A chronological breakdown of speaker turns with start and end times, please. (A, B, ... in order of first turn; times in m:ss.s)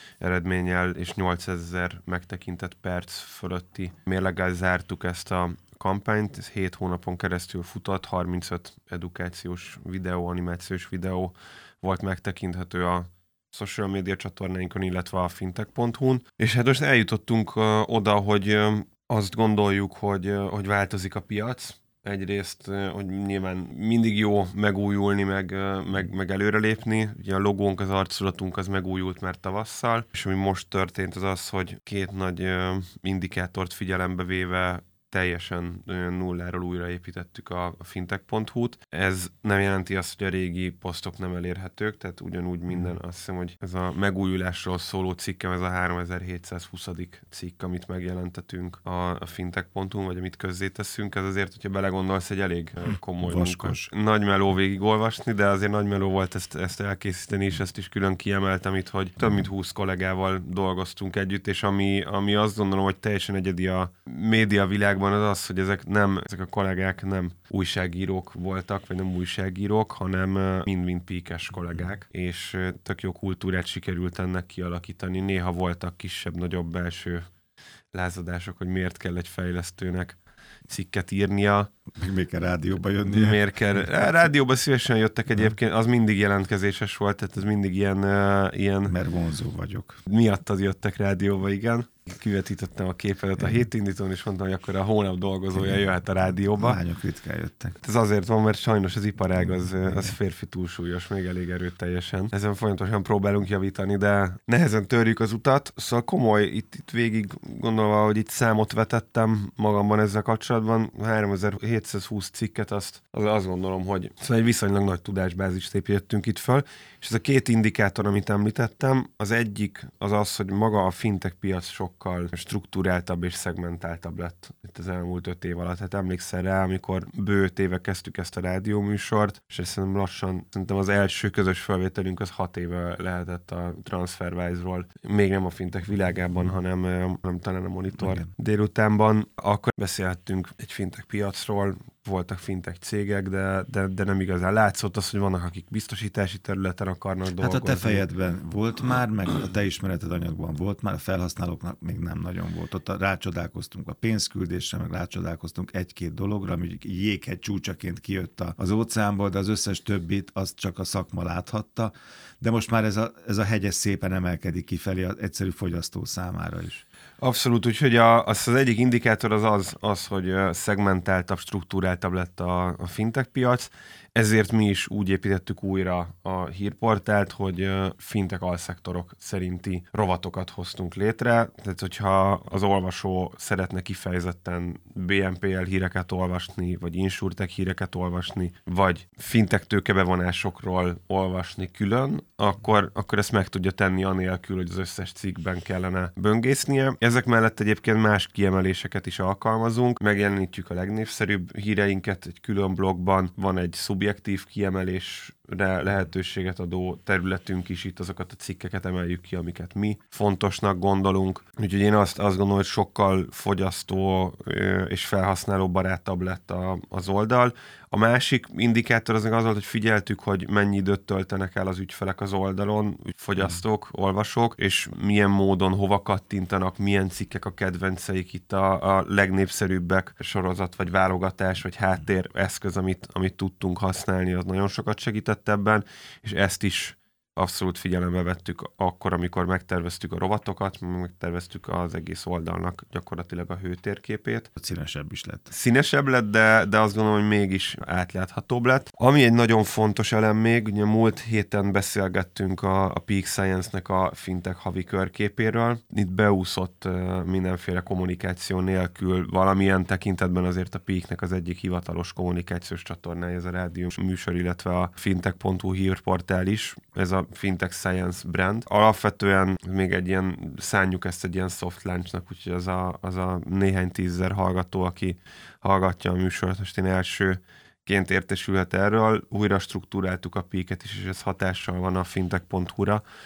0:00.2-1:17.2 A
0:53.2-0:53.9 B
1:17.9-1:20.2 A
1:20.7-1:21.7 A
1:22.0-1:23.4 B
1:23.1-1:28.9 A
1:28.9-1:30.0 B
1:30.1-1:36.8 A
1:35.6-1:35.8 B
1:36.5-1:37.8 B
1:37.8-2:28.0 A
2:18.0-2:18.3 B
2:27.4-2:46.8 B
2:47.2-4:04.5 A
4:04.6-4:05.5 B
4:05.5-4:43.0 A